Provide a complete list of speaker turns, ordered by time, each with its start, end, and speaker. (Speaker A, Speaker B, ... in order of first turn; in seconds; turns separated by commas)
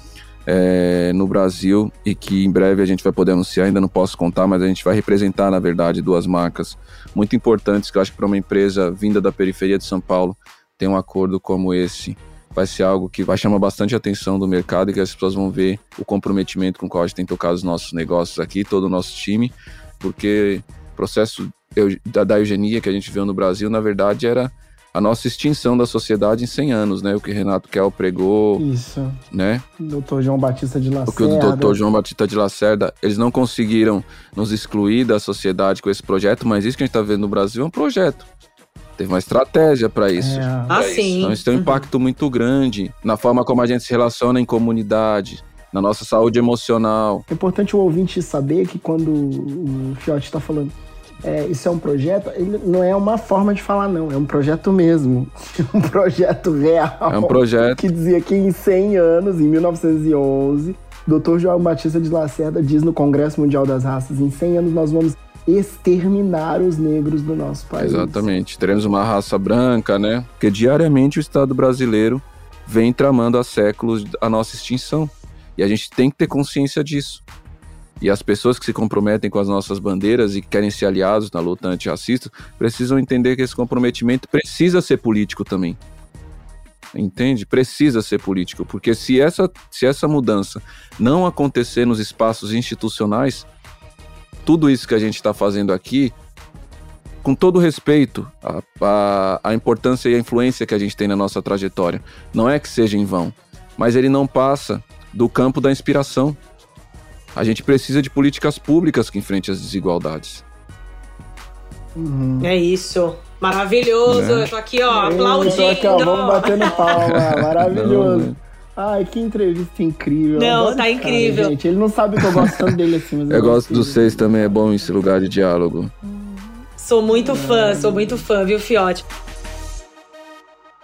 Speaker A: 0.5-28.6, Speaker B: 28.6-29.2, Speaker A: 29.3-29.6, Speaker B: 29.8-31.8, Speaker A: 31.1-38.3, Speaker A: 39.0-47.2, Speaker B: 40.2-40.8, Speaker C: 40.7-41.9, Speaker B: 47.3-68.2, Speaker A: 57.1-57.9, Speaker A: 67.8-77.2, Speaker A: 78.0-85.8, Speaker A: 86.9-93.5, Speaker A: 94.5-96.1, Speaker A: 97.2-106.4, Speaker A: 107.3-110.4, Speaker B: 112.0-112.5, Speaker C: 112.4-116.8, Speaker A: 114.1-114.5, Speaker B: 114.9-124.6, Speaker A: 117.0-118.4, Speaker C: 120.3-121.5, Speaker A: 122.3-122.8, Speaker A: 123.3-125.9, Speaker C: 126.8-129.1, Speaker B: 127.1-128.2